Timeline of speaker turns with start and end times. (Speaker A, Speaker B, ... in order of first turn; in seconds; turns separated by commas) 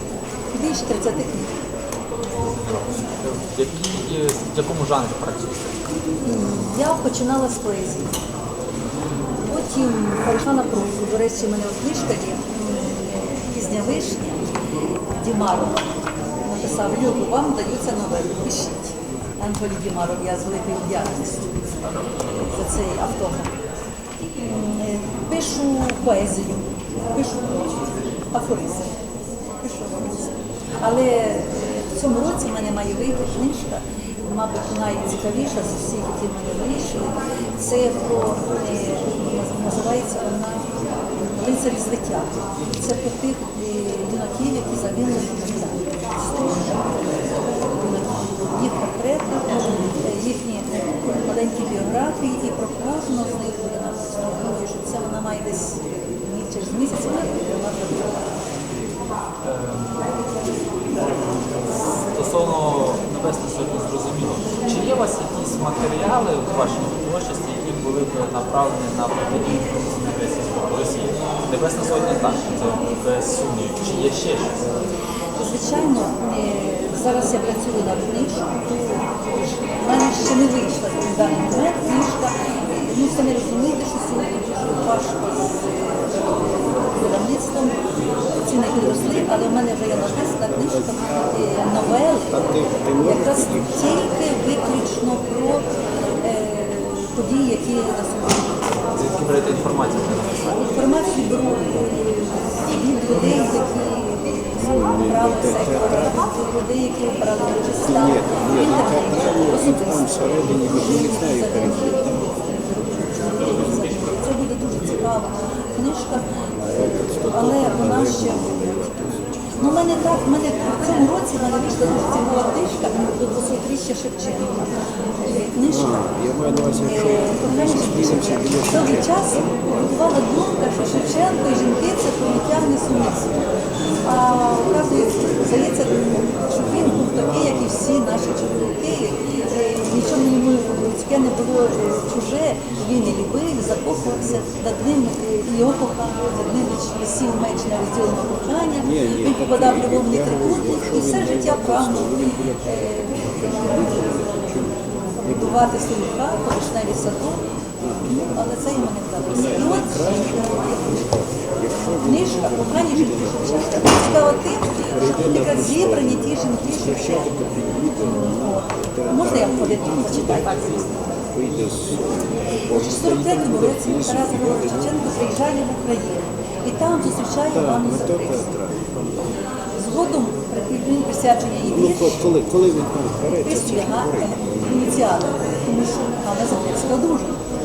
Speaker A: 0.5-1.5, Speaker B: 2.2-5.8, Speaker A: 6.2-8.1, Speaker A: 9.4-14.4, Speaker A: 15.2-15.8, Speaker A: 16.4-21.6, Speaker A: 22.4-23.5, Speaker A: 24.5-28.9, Speaker A: 29.6-40.7, Speaker A: 41.3-58.3, Speaker B: 59.4-60.1, Speaker B: 60.9-74.6, Speaker A: 75.4-87.8, Speaker A: 88.4-92.4, Speaker C: 88.8-91.2, Speaker C: 92.3-93.8, Speaker A: 93.0-95.7, Speaker A: 96.2-98.5, Speaker B: 98.9-100.6, Speaker A: 100.5-116.3, Speaker C: 104.6-106.2, Speaker C: 107.8-112.3, Speaker C: 116.6-119.6, Speaker A: 117.3-118.9, Speaker A: 119.5-126.0, Speaker C: 125.7-129.6, Speaker A: 126.7-133.4, Speaker A: 134.0-154.1, Speaker C: 148.8-155.7, Speaker A: 155.2-157.4, Speaker C: 157.8-158.6, Speaker A: 158.3-160.8, Speaker C: 159.3-175.0, Speaker A: 162.0-167.3, Speaker A: 168.0-171.2, Speaker A: 172.7-178.5, Speaker C: 177.5-179.2, Speaker A: 179.7-182.2, Speaker C: 181.7-184.9, Speaker A: 183.4-187.4